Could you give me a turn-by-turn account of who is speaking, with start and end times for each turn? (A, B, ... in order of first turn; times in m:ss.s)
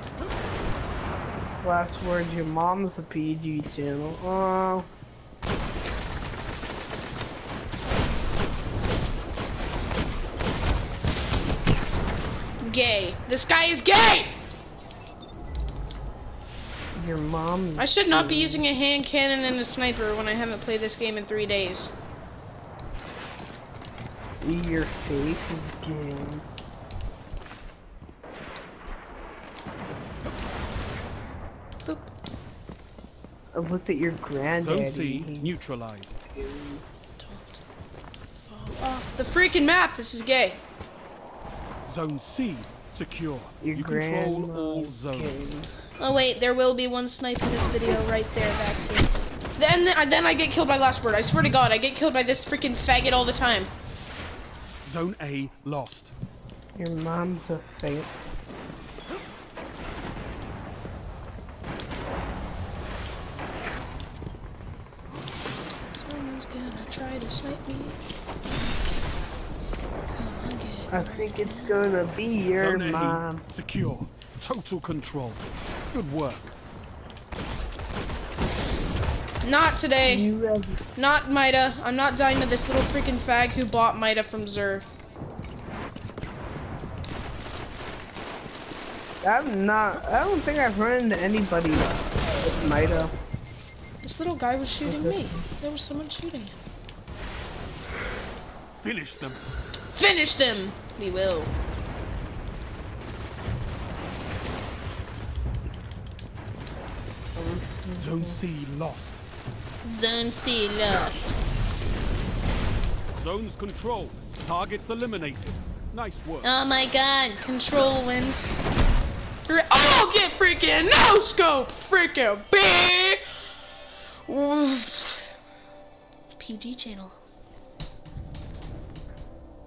0:01.6-0:04.9 A
0:12.6-0:14.3 B
0:16.9-0:18.6 A
0:17.8-0:21.9 B
0:24.4-0:26.4 A
0:31.8-0:32.1 B
0:33.5-0:35.5 A
0:34.6-0:36.2 C
0:36.3-0:36.8 A
0:37.2-0:37.6 B
0:38.5-0:40.6 B
0:41.9-0:45.3 C
0:43.6-0:45.7 A
0:46.0-0:53.7 B
0:54.8-0:56.1 C
0:56.8-0:58.1 A
1:05.9-1:08.0 B
1:10.1-1:11.8 B
1:10.9-1:13.4 A
1:12.5-1:16.5 C
1:19.4-1:20.3 B
1:20.0-1:20.8 A
1:21.0-1:24.8 B
1:29.2-1:33.1 A
1:34.0-1:36.6 B
1:34.8-1:35.4 A
1:38.7-1:39.4 C
1:39.9-1:41.5 B
1:47.4-1:48.4 A
1:48.0-1:49.2 C
1:49.8-1:51.3 B
1:53.2-1:56.5 C
1:56.4-1:58.5 B
1:59.5-2:03.2 B
2:04.3-2:05.3 B
2:06.4-2:07.2 B